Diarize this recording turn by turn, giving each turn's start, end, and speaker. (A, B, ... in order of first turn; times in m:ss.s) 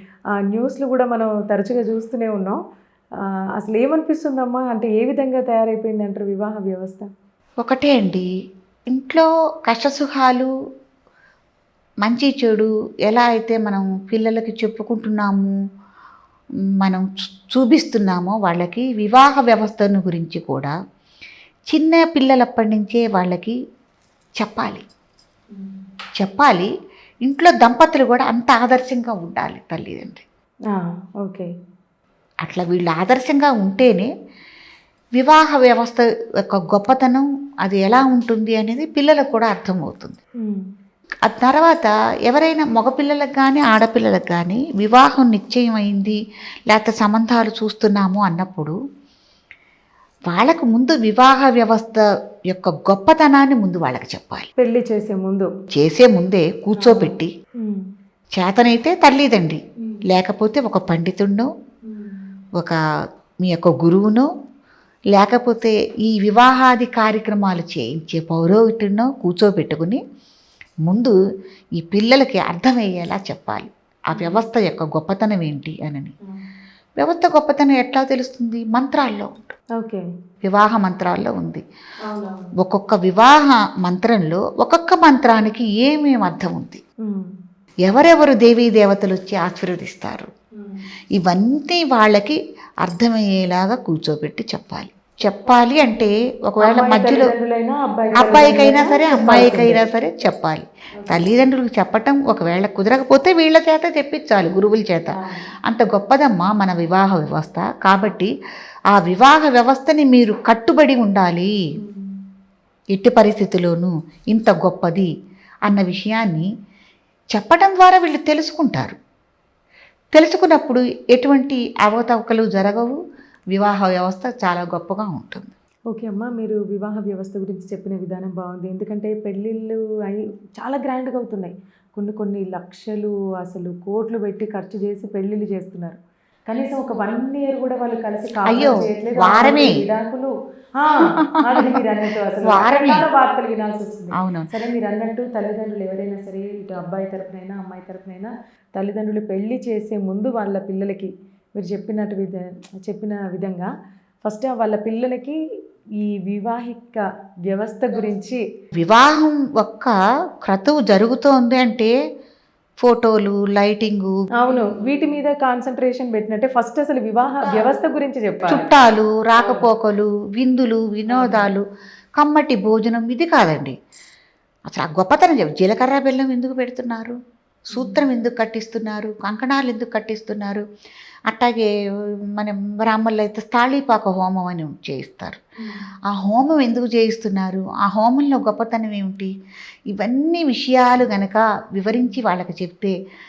0:00.5-0:02.6 A
0:03.6-0:07.1 A
0:07.6-0:08.3 B
0:08.9-0:10.5 B
0:12.0-0:15.5 B
0:16.8-0:20.8 B
0:21.7-0:23.6 B
0:24.4-0:24.9 B
0:26.2-0:26.7 B
0:27.3-0:30.2 B
0:30.7-0:31.5 A
0:32.4-0:34.1 B
0:35.2-0:40.2 B
0:41.3-0:46.2 B
0:46.7-0:48.8 B
0:50.3-0:54.5 B
0:54.6-0:55.5 A
0:55.7-0:57.3 B
0:56.8-0:57.8 A
0:58.4-1:01.5 B
1:01.9-1:02.2 A
1:03.4-1:04.3 B
1:05.1-1:10.0 B
1:10.9-1:11.2 B
1:11.8-1:16.1 B
1:14.1-1:14.5 A
1:17.0-1:19.6 B
1:19.8-1:20.0 A
1:20.4-1:21.6 B
1:22.1-1:22.4 A
1:22.6-1:26.8 B
1:27.9-1:30.3 B
1:31.2-1:37.3 B
1:36.6-1:39.8 A
1:38.2-1:45.1 B
1:41.0-1:41.3 A
1:45.1-1:45.5 A
1:45.7-1:48.3 B
1:48.9-1:51.5 B
1:51.8-1:52.1 A
1:52.9-1:55.1 B
1:55.7-1:56.5 B
1:57.3-1:59.0 B
2:00.1-2:03.0 B
2:03.5-2:05.5 B
2:05.9-2:16.0 A
2:16.5-2:33.7 A
2:18.5-2:19.8 B
2:21.0-2:21.8 B
2:22.4-2:23.1 B
2:24.2-2:24.5 B
2:34.2-2:35.4 A
2:36.0-2:38.4 A
2:38.8-2:41.9 B
2:42.8-2:44.2 B
2:44.4-2:48.7 A
2:48.5-2:51.6 B
2:49.4-2:49.7 A
2:51.1-2:51.5 A
2:52.2-2:53.8 B
2:54.7-2:57.2 B
2:57.7-3:00.6 B
2:57.8-2:58.0 A
3:01.3-3:01.7 B
3:02.4-3:05.4 B
3:06.1-3:09.3 B
3:09.9-3:12.9 B